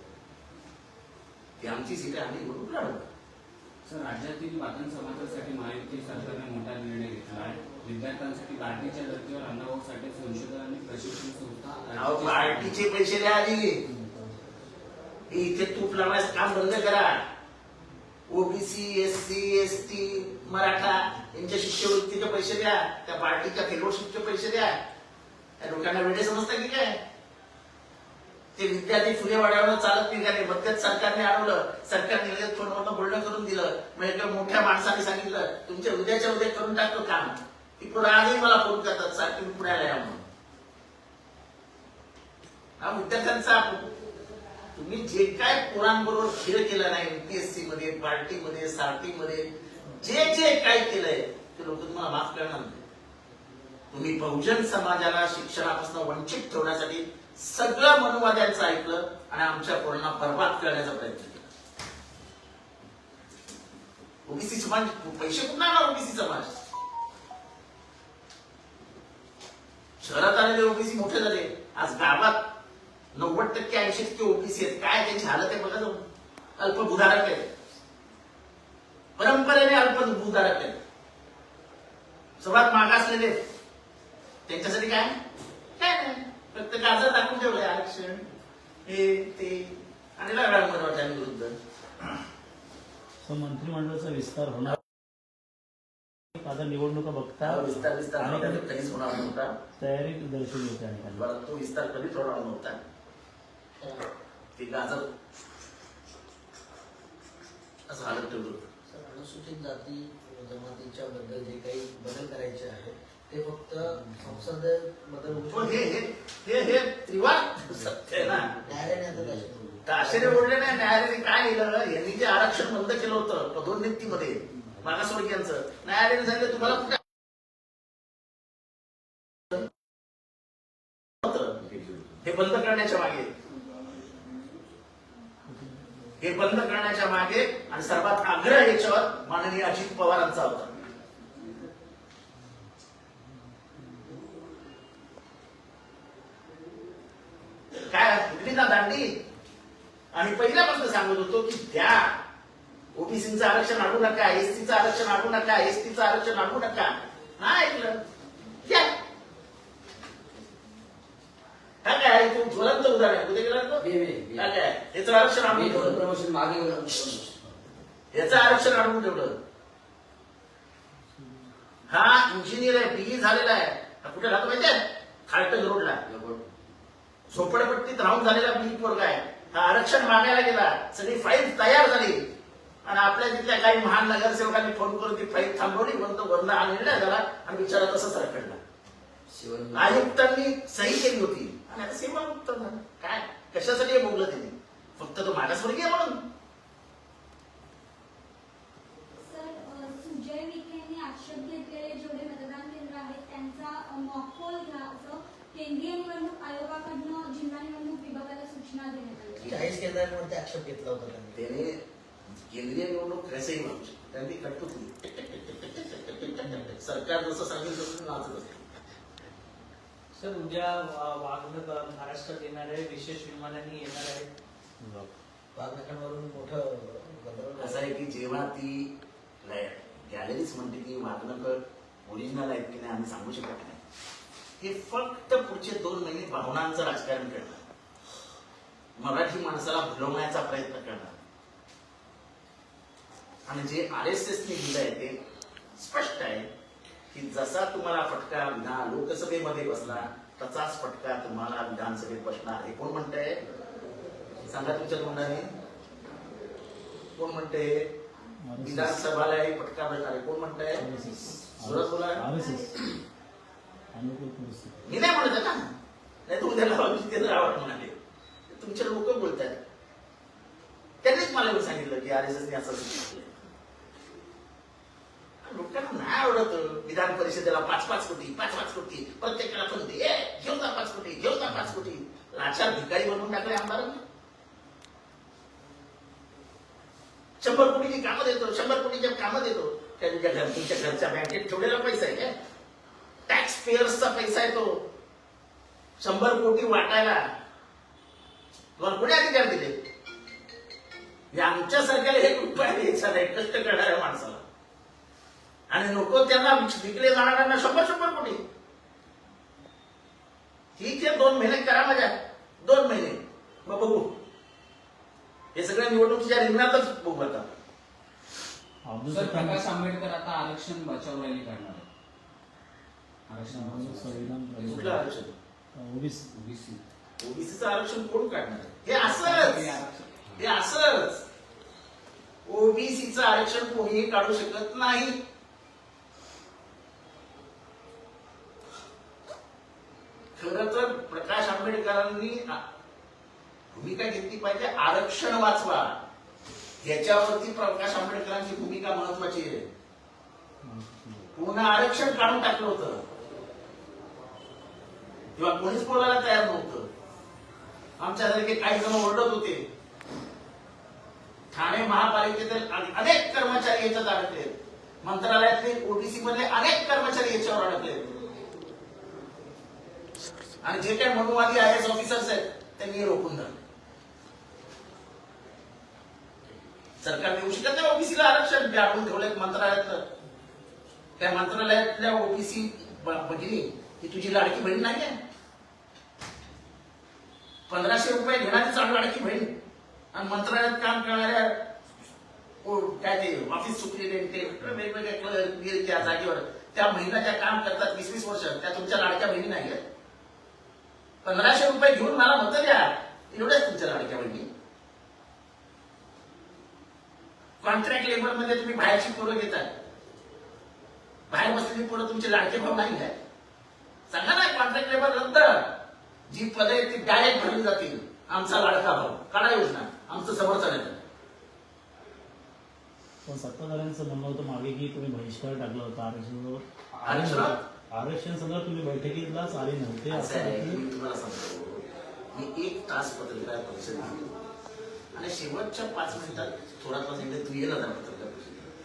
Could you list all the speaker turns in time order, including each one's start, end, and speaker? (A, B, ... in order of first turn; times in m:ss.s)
0:01.6-0:03.0 A
0:03.8-0:12.8 B
0:12.0-0:13.8 A
0:13.8-0:14.4 C
0:15.3-0:17.2 A
0:18.3-0:24.8 A
0:25.6-0:27.0 A
0:28.6-0:40.2 A
0:42.8-0:43.9 A
0:44.8-0:52.8 A
0:53.9-1:01.5 A
1:04.2-1:06.6 A
1:10.0-1:12.5 A
1:13.1-1:16.0 A
1:16.6-1:17.5 A
1:19.2-1:20.8 A
1:22.4-1:23.4 A
1:24.5-1:25.2 A
1:25.8-1:28.2 A
1:28.9-1:31.6 A
1:33.2-1:34.8 C
1:36.3-1:38.7 C
1:37.4-1:39.6 A
1:39.8-1:41.3 C
1:41.1-1:42.8 A
1:43.8-1:44.1 D
1:44.6-1:45.1 A
1:47.9-1:48.7 A
1:48.9-1:56.0 D
1:53.9-1:54.4 C
1:55.5-1:58.5 A
1:57.8-1:59.6 C
1:58.6-2:00.5 D
1:59.9-2:07.0 A
2:11.2-2:11.6 A
2:11.7-2:12.1 E
2:12.2-2:13.3 A
2:15.5-2:15.9 C
2:16.2-2:20.8 A
2:27.9-2:29.2 A
2:30.1-2:32.2 A
2:32.9-2:38.0 A
2:38.6-2:38.9 A
2:41.8-2:46.0 A
2:43.8-2:44.5 E
2:45.5-2:47.6 E
2:48.1-2:49.4 A
2:51.9-2:56.0 A
2:56.1-2:56.6 E
2:57.3-3:02.2 A
3:02.8-3:08.6 A
3:09.3-3:10.2 E
3:09.7-3:16.2 A
3:19.2-3:29.6 F
3:29.4-3:31.4 D
3:31.3-3:31.8 A
3:32.3-3:38.8 A
3:36.4-3:36.7 C
3:40.1-3:44.3 G
3:44.8-3:45.1 C
3:45.6-3:47.9 D
3:47.6-3:48.9 A
3:49.4-3:53.8 A
3:54.6-3:57.6 A
3:59.0-4:01.2 A
4:03.5-4:05.2 A
4:05.8-4:06.5 A
4:07.1-4:13.4 A
4:14.4-4:15.5 A
4:17.1-4:17.8 A
4:18.5-4:19.0 C
4:18.6-4:20.9 A
4:20.8-4:22.8 C
4:21.6-4:22.2 A
4:23.9-4:24.9 C
4:24.9-4:25.6 A
4:26.3-4:28.0 A
4:28.5-4:29.6 A
4:31.0-4:33.4 A
4:35.4-4:44.0 A
4:47.4-4:52.3 A
4:53.3-4:54.8 A
4:56.0-4:57.2 A
4:58.8-4:59.8 A
5:01.3-5:04.4 A
5:05.7-5:08.4 A
5:10.8-5:14.1 A
5:15.6-5:17.5 A
5:18.9-5:19.8 C
5:19.1-5:21.9 B
5:23.3-5:25.0 B
5:23.4-5:25.1 C
5:24.6-5:25.4 A
5:25.8-5:26.3 C
5:26.3-5:26.8 B
5:27.2-5:29.8 A
5:29.0-5:30.4 B
5:30.4-5:31.2 A
5:32.4-5:35.2 A
5:40.4-5:42.6 A
5:43.7-5:46.0 A
5:46.8-5:49.7 A
5:50.6-5:51.3 C
5:51.4-5:53.0 A
5:55.4-5:56.9 A
5:58.0-5:59.6 A
6:01.5-6:08.1 A
6:10.6-6:13.6 A
6:17.0-6:20.0 A
6:21.2-6:25.2 A
6:27.7-6:29.5 A
6:30.1-6:31.6 A
6:32.6-6:39.8 A
6:41.2-6:44.5 A
6:47.6-6:49.7 A
6:51.3-6:53.1 A
6:54.1-6:55.6 A
6:56.3-7:01.0 A
7:03.3-7:10.8 C
7:07.1-7:07.6 A
7:10.1-7:11.8 A
7:12.3-7:14.3 A
7:15.1-7:18.7 A